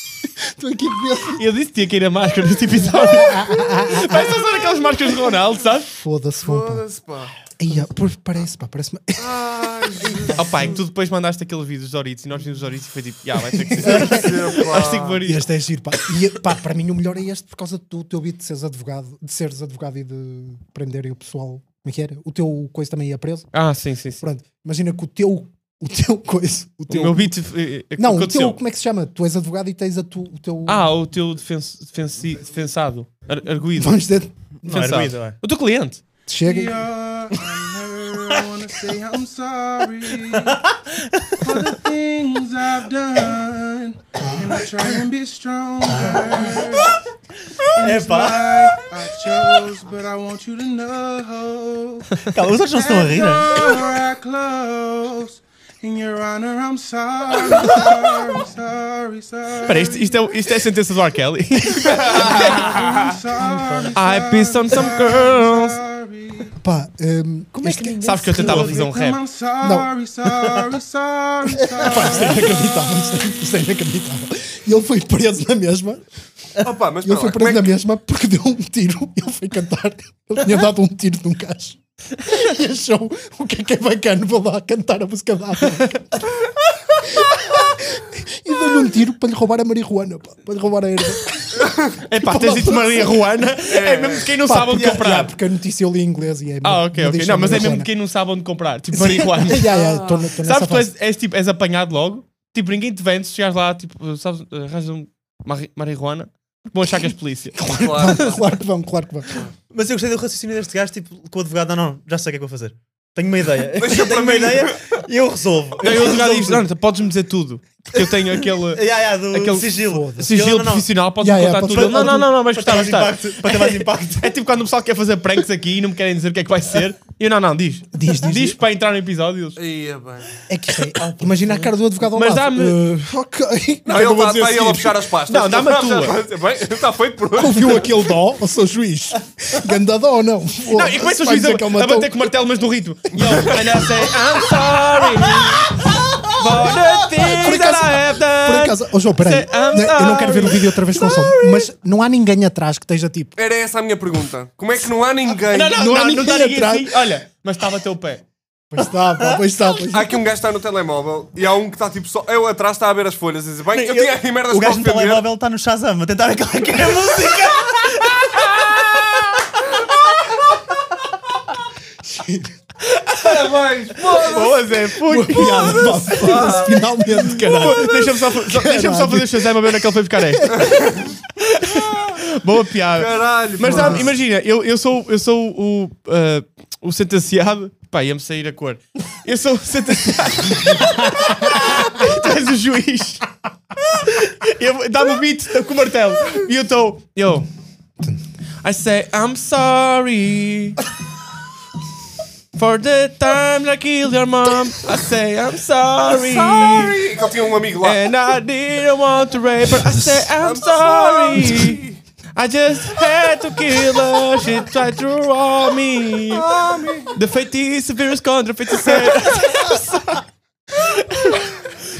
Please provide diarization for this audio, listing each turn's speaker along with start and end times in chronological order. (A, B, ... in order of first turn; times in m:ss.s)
0:00.5-0:01.4 A
0:01.4-0:05.9 B
0:02.8-0:04.4 A
0:05.9-0:06.8 A
0:06.4-0:07.3 C
0:07.6-0:10.3 A
0:09.2-0:10.8 C
0:10.3-0:15.4 B
0:13.5-0:14.6 A
0:13.9-0:15.2 C
0:15.2-0:23.5 A
0:23.5-0:24.2 B
0:24.2-0:27.4 A
0:26.9-0:28.6 B
0:28.0-0:30.9 A
0:30.7-0:34.0 B
0:33.7-0:34.9 A
0:34.6-0:35.4 D
0:34.6-0:36.0 B
0:36.3-0:36.8 A
0:36.4-0:40.6 E
0:41.4-0:46.9 E
0:47.8-0:52.1 E
0:47.8-0:48.6 D
0:52.3-0:53.7 D
0:52.7-1:00.3 E
0:59.6-1:02.7 B
1:02.1-1:06.6 E
1:03.5-1:03.9 D
1:03.9-1:05.8 B
1:06.6-1:08.7 A
1:07.6-1:08.8 D
1:08.0-1:09.2 B
1:08.3-1:12.9 E
1:09.6-1:09.9 A
1:11.7-1:16.0 A
1:16.6-1:17.7 C
1:17.0-1:26.0 A
1:27.0-1:33.4 A
1:32.0-1:35.3 B
1:33.6-1:34.3 C
1:34.4-1:37.9 A
1:36.6-1:39.7 B
1:38.9-1:40.9 A
1:39.7-1:40.2 C
1:40.4-1:48.1 B
1:47.6-1:49.3 A
1:47.6-1:48.4 C
1:49.7-1:56.6 D
1:53.8-1:54.9 C
1:55.8-2:09.6 B
1:58.0-2:00.9 D
1:59.8-2:00.4 A
2:01.2-2:02.3 A
2:01.7-2:04.4 D
2:07.9-2:08.6 A
2:09.6-2:10.3 C
2:10.5-2:14.8 A
2:10.9-2:11.7 D
2:12.1-2:12.8 B
2:13.9-2:18.0 C
2:14.5-2:16.2 B
2:17.4-2:22.3 A
2:20.7-2:31.5 B
2:27.2-2:33.3 A
2:33.4-2:35.8 C
2:35.5-2:38.2 B
2:35.6-2:37.0 A
2:38.7-2:40.2 A
2:39.9-2:45.3 C
2:43.8-2:48.2 D
2:52.0-2:52.5 A
2:52.8-2:53.3 B
2:53.2-2:54.6 C
2:54.0-3:00.6 B
2:54.9-3:00.9 A
2:56.1-2:56.8 C
3:00.5-3:01.1 C
3:01.4-3:13.3 B
3:03.0-3:04.1 C
3:03.6-3:04.1 A
3:13.8-3:17.5 B
3:18.6-3:20.8 B
3:22.5-3:27.0 B
3:26.0-3:28.0 C
3:27.8-3:31.8 B
3:30.4-3:32.0 C
3:32.4-3:36.4 B
3:36.3-3:37.2 C
3:37.1-3:40.2 B
3:40.8-3:41.5 B